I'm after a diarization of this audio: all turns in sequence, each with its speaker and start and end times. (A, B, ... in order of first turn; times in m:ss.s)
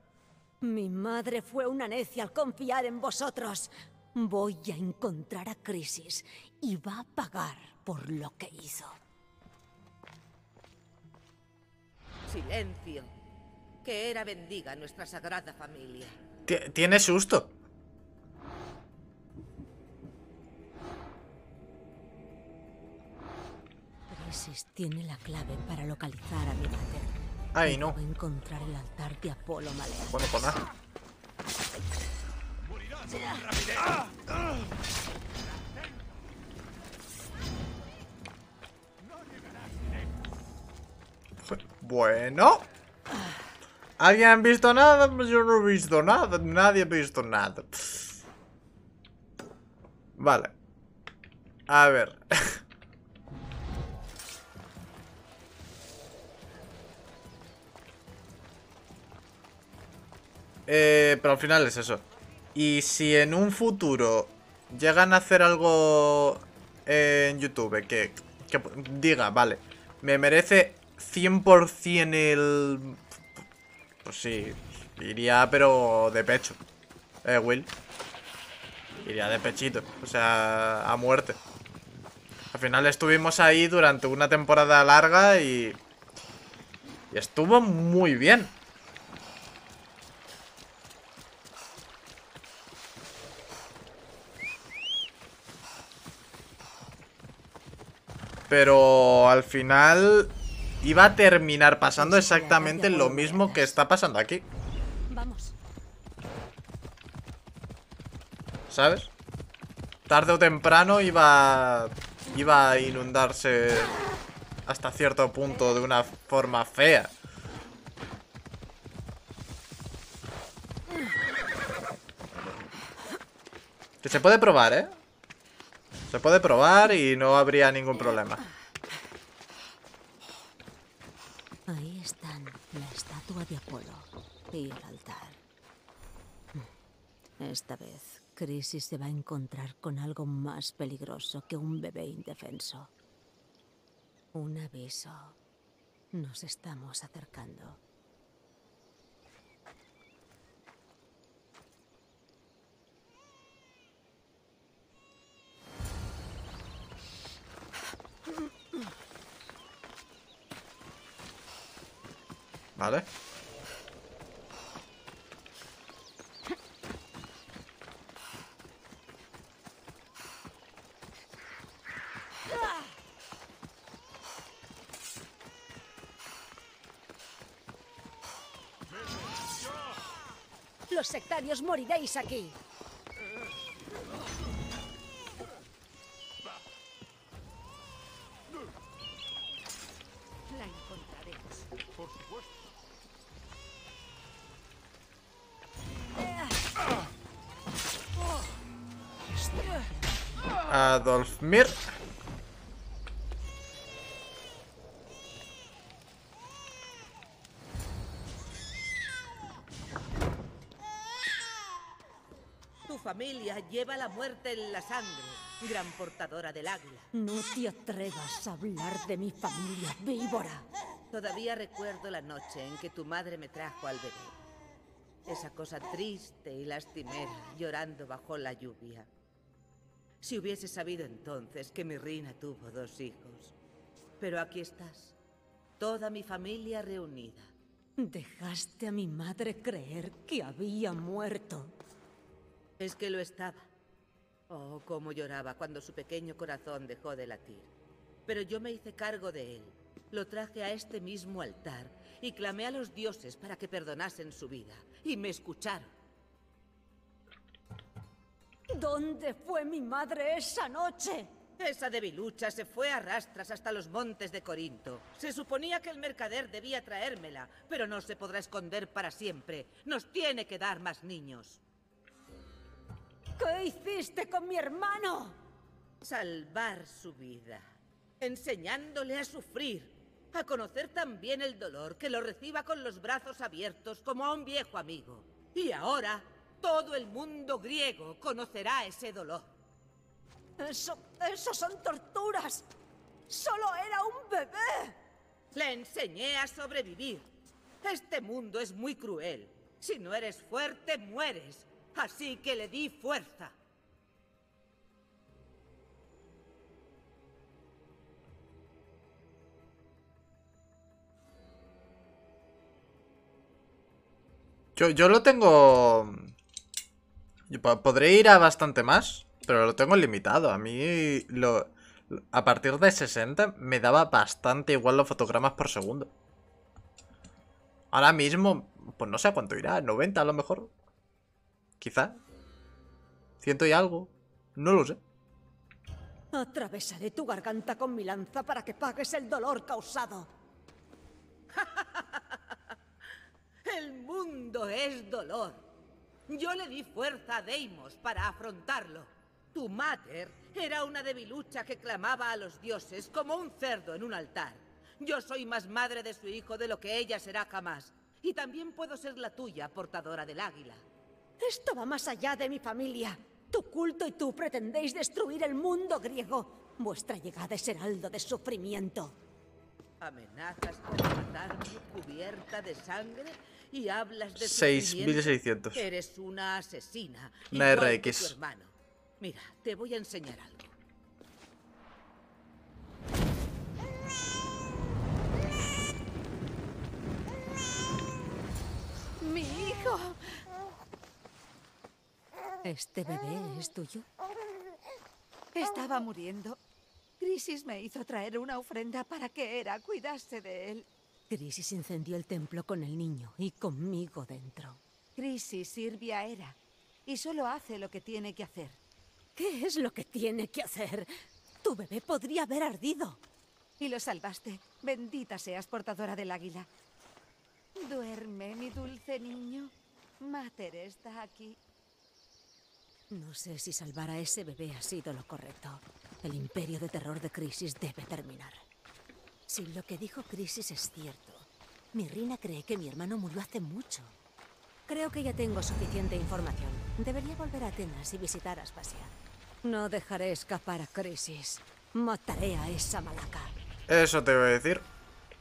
0:00.6-0:09.0 A
0:12.3-0:13.1 B
0:13.8-0:16.2 B
0:16.5-0:17.5 C
0:24.1-0:30.6 A
0:27.5-0:28.0 C
0:30.1-0:30.6 C
0:41.4-0:42.7 C
0:44.0-0:48.2 C
0:50.2-0:50.5 C
0:51.7-0:52.6 C
1:00.7-1:02.0 C
1:02.5-1:13.0 C
1:14.0-1:16.6 C
1:17.2-1:17.7 C
1:19.0-1:21.4 C
1:22.5-1:25.8 C
1:27.1-1:28.6 C
1:38.5-1:44.5 C
1:42.0-1:43.8 A
1:45.1-1:45.6 A
1:48.7-1:49.1 C
1:50.1-1:53.9 C
1:54.7-1:57.1 C
2:04.0-2:05.0 C
2:06.1-2:08.4 C
2:11.7-2:15.4 A
2:17.4-2:22.9 A
2:24.3-2:25.4 A
2:26.1-2:27.8 A
2:42.8-2:43.1 C
3:00.9-3:02.6 A
3:10.5-3:11.6 D
3:20.7-3:21.8 C
3:32.9-3:37.1 B
3:37.1-3:40.7 A
3:41.1-3:44.4 B
3:45.3-3:49.1 B
3:50.2-3:53.5 B
3:54.2-3:55.2 B
3:55.8-3:57.5 B
3:58.0-4:01.7 A
4:02.8-4:03.7 B
4:04.5-4:07.7 B
4:08.3-4:15.9 B
4:18.7-4:21.3 A
4:21.6-4:31.6 B
4:33.4-4:35.4 A
4:36.0-4:37.7 B
4:38.2-4:49.5 B
4:50.6-4:52.6 A
4:53.3-4:55.0 A
4:55.5-4:57.3 B
4:57.8-5:03.6 B
5:14.8-5:16.3 C
5:17.5-5:26.1 C
5:27.9-5:30.7 C
5:31.8-5:32.2 C
5:33.4-5:35.0 C
5:36.3-5:40.3 A
5:41.5-5:42.4 B
5:43.6-5:45.6 B
5:46.3-6:00.8 B
6:01.4-6:09.2 A
6:10.0-6:20.7 B
6:14.4-6:15.8 C
6:17.5-6:18.4 C
6:29.2-6:30.2 D
6:32.6-6:34.1 A
6:35.6-6:36.6 D
6:37.2-6:40.9 D
6:41.3-6:44.8 A
6:45.2-6:48.8 D
6:49.4-6:53.2 A
6:53.8-6:56.7 D
6:57.8-7:01.6 D
7:03.1-7:08.6 A
7:09.5-7:14.2 A
7:14.9-7:19.1 A
7:19.6-7:23.6 A
7:23.9-7:24.9 C